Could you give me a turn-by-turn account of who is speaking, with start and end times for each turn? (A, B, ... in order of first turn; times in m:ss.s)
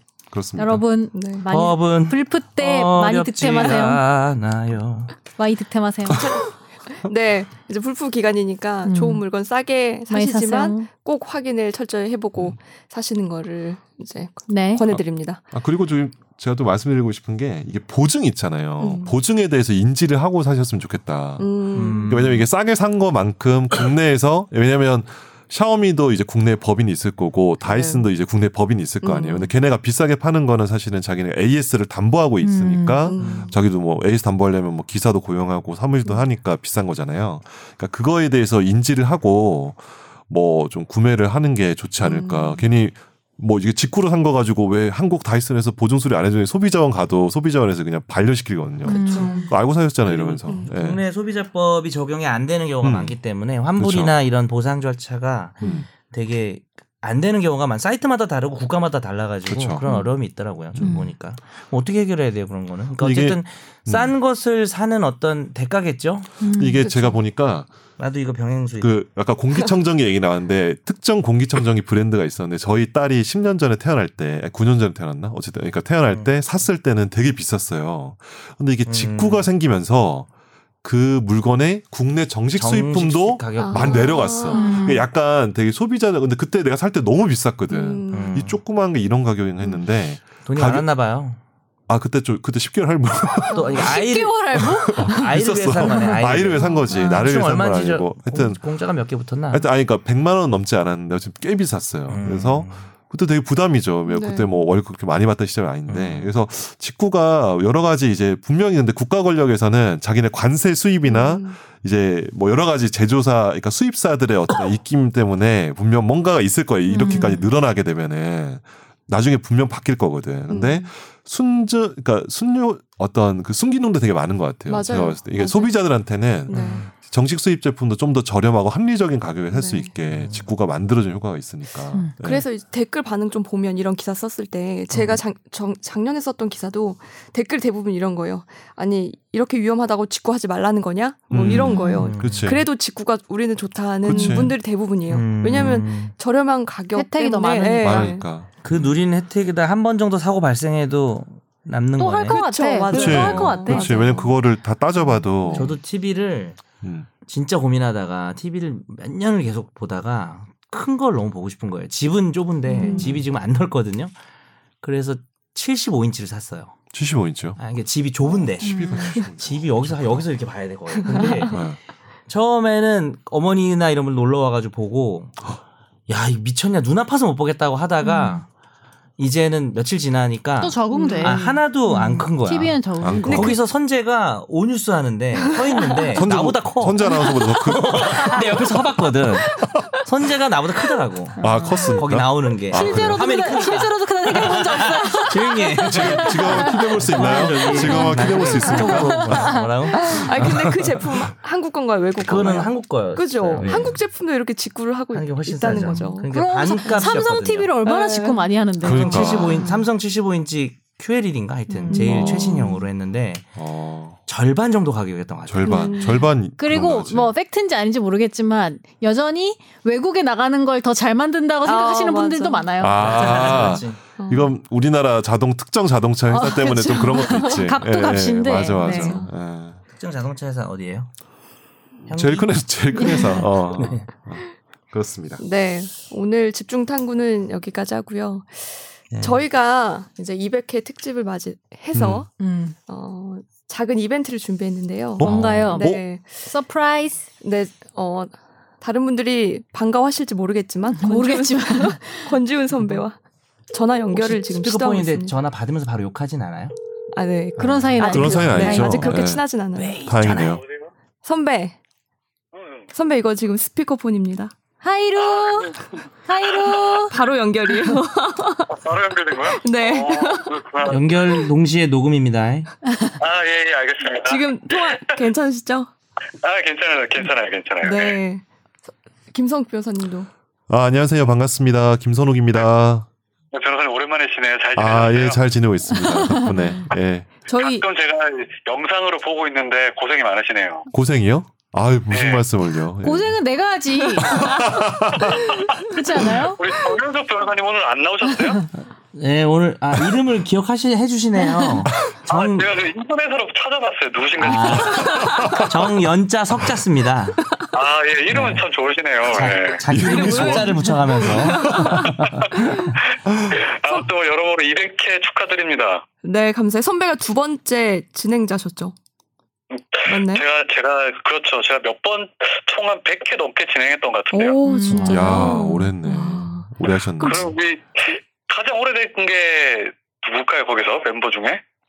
0:00.3-0:00.8 A
0:00.6-0:04.0 B
0:01.1-0:01.4 C
0:01.5-0:05.2 D
0:05.4-0:06.3 B
0:06.1-0:15.4 C
0:08.8-0:09.2 B
0:10.1-0:10.9 B
0:14.5-0:14.8 B
0:14.9-0:51.0 A
0:18.8-0:19.1 C
0:21.4-0:22.2 C
0:21.7-0:22.5 D
0:27.6-0:28.1 C
0:29.0-0:29.5 C
0:32.4-0:33.1 B
0:33.0-0:33.6 C
0:33.2-0:33.5 D
0:42.0-0:42.7 C
0:48.8-0:49.5 B
0:48.8-0:49.5 C
0:50.0-1:06.3 D
0:52.8-0:53.2 A
0:53.8-0:54.1 A
0:59.5-0:59.8 A
1:00.8-1:01.0 A
1:00.8-1:01.1 B
1:03.0-1:04.1 A
1:06.4-1:06.9 B
1:06.6-1:07.7 A
1:06.8-1:07.2 C
1:08.0-1:09.0 D
1:08.8-1:20.3 A
1:16.1-1:16.3 D
1:18.8-1:19.5 D
1:20.8-1:30.9 A
1:22.6-1:24.4 D
1:23.6-1:24.8 C
1:24.5-1:25.0 B
1:27.7-1:28.5 C
1:28.1-1:28.6 D
1:30.4-1:31.4 D
1:31.9-1:33.9 A
1:33.5-1:33.8 C
1:33.5-1:34.4 D
1:33.8-1:35.3 B
1:34.6-1:38.6 A
1:34.9-1:39.7 D
1:35.8-1:36.1 B
1:36.5-1:37.2 C
1:36.9-1:37.3 B
1:39.5-2:12.4 A
1:42.1-1:42.9 D
1:44.1-1:44.6 C
1:45.9-1:46.3 D
1:51.0-1:51.6 C
1:56.9-1:57.5 B
1:56.9-1:57.4 C
2:00.5-2:00.9 C
2:04.7-2:05.7 C
2:06.5-2:06.8 C
2:06.5-2:06.9 D
2:09.5-2:09.9 C
2:10.1-2:10.5 D
2:12.2-2:28.2 C
2:21.3-2:22.6 A
2:21.4-2:22.5 D
2:21.7-2:22.1 B
2:24.0-2:24.5 A
2:24.1-2:24.4 B
2:25.1-2:26.1 D
2:26.9-2:28.1 B
2:27.8-2:28.5 A
2:28.6-2:32.4 D
2:32.0-2:34.1 B
2:32.3-2:34.4 C
2:32.9-2:35.8 A
2:35.5-2:36.6 D
2:36.8-2:37.1 A
2:37.2-2:44.1 D
2:42.7-2:43.1 C
2:42.8-2:43.1 B
2:43.0-2:43.2 A
2:44.8-2:46.8 D
2:46.9-2:47.6 A
2:47.6-2:51.6 D
2:48.3-2:50.2 A
2:48.6-2:49.2 B
2:51.0-2:51.6 C
2:51.2-2:51.8 A
2:52.3-2:55.4 D
2:56.1-2:58.5 D
2:58.0-2:58.4 B
2:59.2-3:21.0 D
3:00.6-3:03.5 B
3:00.9-3:01.5 C
3:03.0-3:03.6 A
3:03.3-3:03.5 C
3:05.6-3:06.2 C
3:06.1-3:08.4 A
3:07.0-3:07.4 C
3:11.4-3:13.4 A
3:11.4-3:12.0 B
3:12.7-3:20.3 B
3:15.8-3:19.6 A
3:18.6-3:19.0 C
3:19.9-3:26.3 C
3:22.2-3:24.0 D
3:23.5-3:24.0 A
3:25.1-3:27.7 D
3:26.3-3:29.8 B
3:26.8-3:27.1 C
3:27.8-3:28.5 C
3:28.8-3:29.7 A
3:28.8-3:33.4 D
3:31.7-3:32.1 B
3:31.9-3:32.8 C
3:32.0-3:32.8 A
3:33.6-3:34.2 A
3:34.3-3:36.2 D
3:35.5-3:37.3 A
3:35.6-3:36.3 C
3:36.6-3:43.7 B
3:41.6-3:42.7 C
3:42.8-3:49.8 A
3:43.0-3:44.0 D
3:43.3-3:43.6 C
3:44.2-3:44.5 C
3:46.3-3:49.2 B
3:47.0-3:47.7 C
3:48.8-3:49.3 C
3:49.9-3:51.1 D
3:52.1-3:52.7 D
3:52.1-3:55.4 A
3:53.0-3:53.4 B
3:53.0-3:53.4 C
3:53.7-3:54.1 D
3:55.4-4:02.3 C
3:59.1-3:59.4 D
4:01.9-4:02.2 A
4:02.4-4:02.8 B
4:02.9-4:06.4 C
4:05.2-4:06.0 A
4:05.2-4:07.3 B
4:05.2-4:05.7 D
4:07.4-4:13.2 C
4:10.9-4:12.4 B
4:13.7-4:15.3 C
4:14.1-4:16.7 D
4:17.1-4:20.0 C
4:17.6-4:19.3 B
4:18.0-4:19.4 A
4:19.7-4:20.6 D
4:20.0-4:20.6 A
4:21.2-4:21.8 C
4:22.5-4:22.8 E
4:22.9-4:24.5 C
4:24.8-4:27.2 B
4:25.2-4:25.8 E
4:27.1-4:28.8 C
4:28.7-4:31.4 E
4:29.5-4:30.5 C
4:30.9-4:32.7 D
4:33.2-4:35.2 E
4:34.3-4:35.9 C
4:36.4-4:38.2 E
4:37.8-4:38.4 C
4:39.3-4:40.3 C
4:40.7-4:43.1 A
4:43.5-4:45.4 E
4:44.8-4:47.3 A
4:46.1-4:46.7 B
4:47.5-4:47.8 C
4:47.5-4:50.8 E
4:50.9-4:53.4 A
4:52.1-4:52.4 E
4:53.0-4:54.6 B
4:54.2-4:55.5 A
4:54.3-4:54.7 C
4:55.3-4:55.8 E
4:55.9-4:56.6 B
4:56.5-4:58.7 E
4:59.1-5:02.7 D
5:02.3-5:05.6 E
5:04.4-5:07.4 D
5:05.1-5:05.6 C
5:05.3-5:05.6 A
5:07.7-5:09.8 E
5:08.3-5:08.6 D
5:09.3-5:12.9 D
5:09.9-5:12.1 A
5:10.0-5:12.8 C
5:13.3-5:13.6 A
5:13.5-5:16.0 E
5:16.2-5:18.9 C
5:19.7-5:24.6 E
5:20.0-5:20.4 C
5:24.3-5:27.5 C
5:24.6-5:25.6 B
5:24.9-5:25.4 D
5:25.0-5:27.5 A
5:27.2-5:31.6 E